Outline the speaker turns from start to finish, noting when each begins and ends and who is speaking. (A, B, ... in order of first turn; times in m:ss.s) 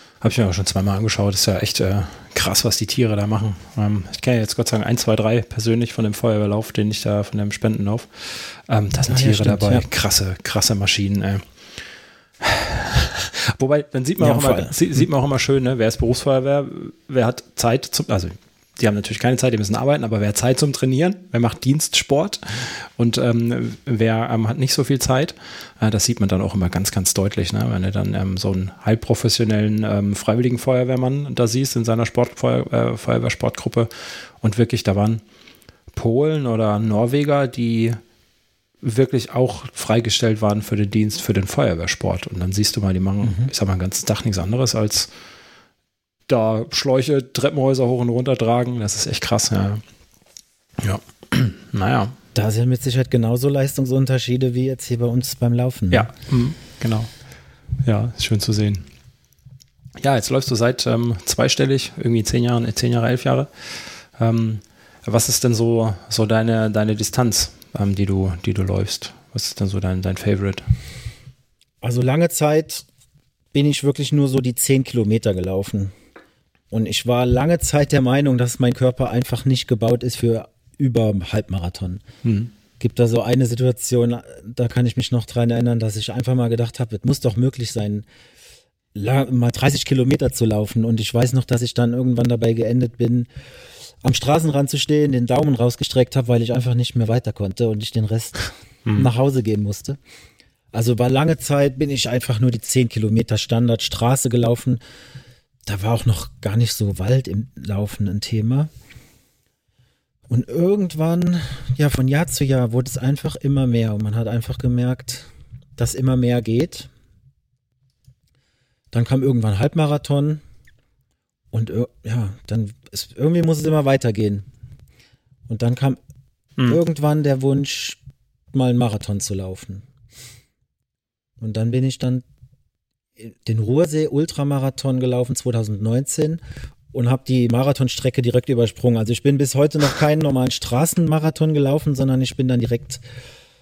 0:00.2-0:11.4 A
0:09.1-0:09.9 B
0:12.4-0:35.2 A
0:14.2-0:14.8 B
0:35.9-0:38.0 A
0:38.8-0:45.1 A
0:43.2-0:43.5 B
0:46.3-0:49.8 A
0:50.8-0:52.2 A
0:52.3-0:56.1 B
0:55.9-0:57.1 A
0:57.8-0:58.8 A
1:00.0-1:10.7 A
1:11.8-1:12.9 B
1:13.5-1:15.9 B
1:16.7-1:22.0 B
1:22.2-1:22.5 A
1:22.8-1:28.1 B
1:28.9-1:33.3 B
1:34.0-1:40.0 B
1:40.7-1:44.8 B
1:45.7-1:48.7 B
1:50.3-1:56.9 B
1:58.9-2:00.4 B
2:01.5-2:04.5 B
2:05.5-2:06.0 B
2:06.7-2:08.0 B
2:08.5-2:09.9 B
2:11.4-2:12.2 B
2:13.2-2:16.4 B
2:16.9-2:23.0 B